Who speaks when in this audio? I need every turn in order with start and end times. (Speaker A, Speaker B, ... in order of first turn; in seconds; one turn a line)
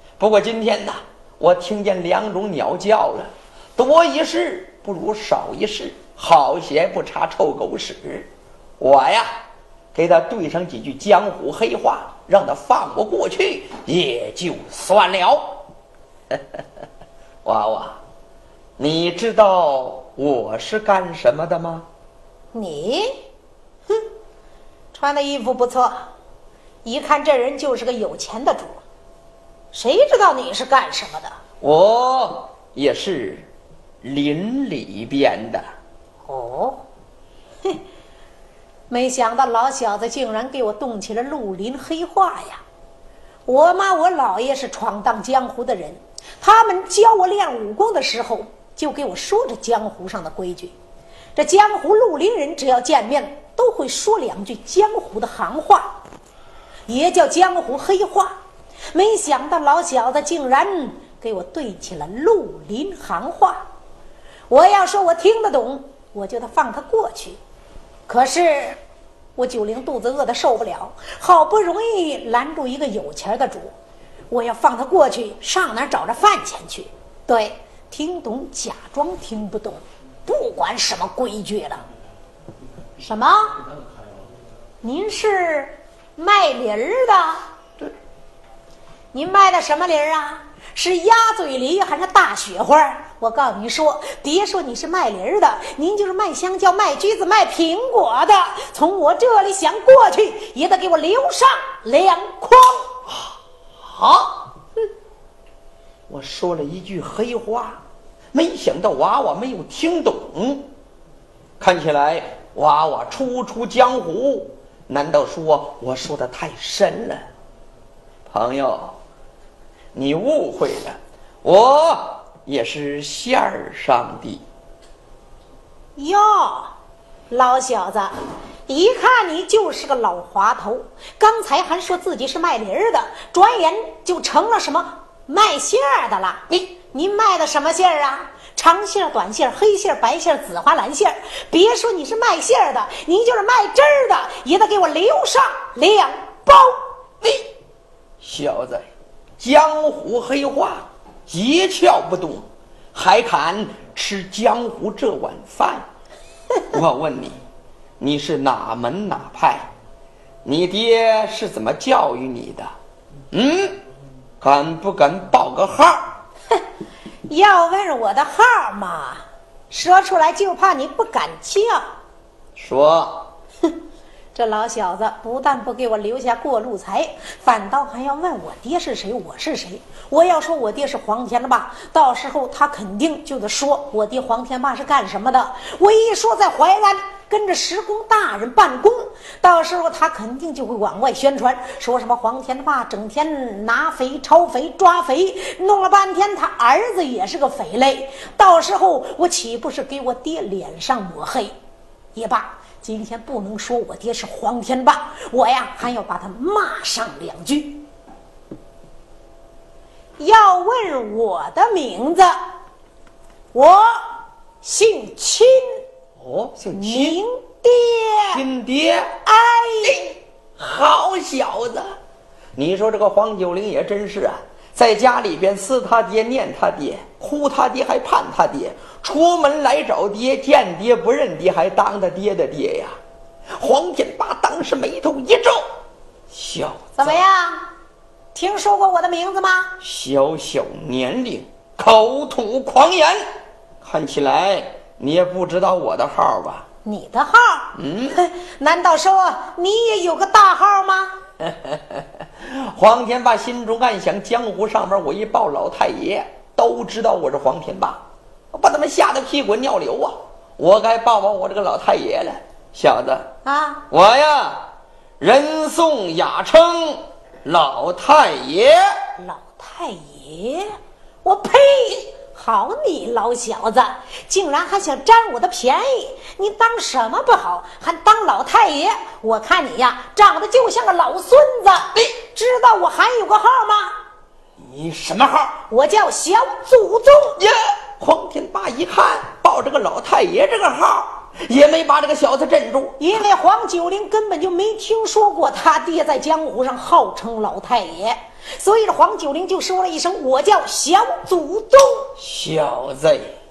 Speaker A: 0.2-9.3
Speaker A: 9.9-15.6
Speaker A: 16.3-16.6
Speaker A: 17.4-18.0
Speaker A: 18.8-21.9
Speaker B: 22.5-23.2
Speaker B: 24.9-26.1
Speaker B: 26.8-28.8
Speaker B: 29.7-31.4
Speaker A: 31.6-33.5
Speaker A: 34.0-35.6
Speaker B: 36.3-36.8
Speaker B: 38.9-42.6
Speaker B: 43.5-50.7
Speaker B: 51.4-56.0
Speaker B: 56.9-58.3
Speaker B: 58.9-63.6
Speaker B: 64.5-67.4
Speaker B: 68.1-68.8
Speaker B: 69.4-73.7
Speaker B: 74.3-81.8
Speaker B: 83.0-83.6
Speaker B: 84.8-87.5
Speaker B: 89.1-102.9
Speaker A: 103.8-104.5
Speaker A: 106.1-107.8
Speaker A: 108.3-110.7
Speaker A: 111.6-117.2
Speaker A: 118.3-119.0
Speaker A: 119.9-124.4
Speaker B: 126.0-126.7
Speaker B: 127.3-128.1
Speaker B: 128.7-146.8
Speaker A: 147.2-147.5
Speaker A: 148.2-155.8
Speaker A: 156.7-157.4
Speaker A: 158.0-159.7
Speaker A: 160.4-162.7
Speaker A: 163.3-163.8
Speaker A: 164.4-166.0
Speaker B: 167.3-171.9
Speaker A: 172.6-173.3
Speaker B: 174.3-201.6
Speaker B: 202.2-207.9
Speaker B: 210.2-212.3
Speaker B: 213.5-214.1
Speaker B: 214.6-215.8
Speaker A: 216.2-217.2
Speaker B: 216.7-218.4
Speaker A: 218.3-219.1
Speaker B: 219.2-220.1
Speaker A: 219.8-221.9
Speaker A: 222.6-233.0
Speaker A: 233.6-235.7
Speaker A: 236.3-237.2
Speaker B: 237.0-237.7
Speaker B: 238.3-239.8
Speaker A: 239.8-243.2
Speaker A: 243.8-246.7
Speaker B: 246.8-251.2
Speaker A: 247.8-248.2
Speaker A: 251.4-263.3
Speaker B: 263.4-263.9
Speaker A: 263.9-264.6
Speaker A: 265.2-268.9
Speaker B: 269.2-283.9
Speaker A: 284.6-285.6
Speaker B: 285.7-287.4
Speaker A: 287.4-293.0
Speaker B: 293.0-302.1
Speaker A: 302.2-303.3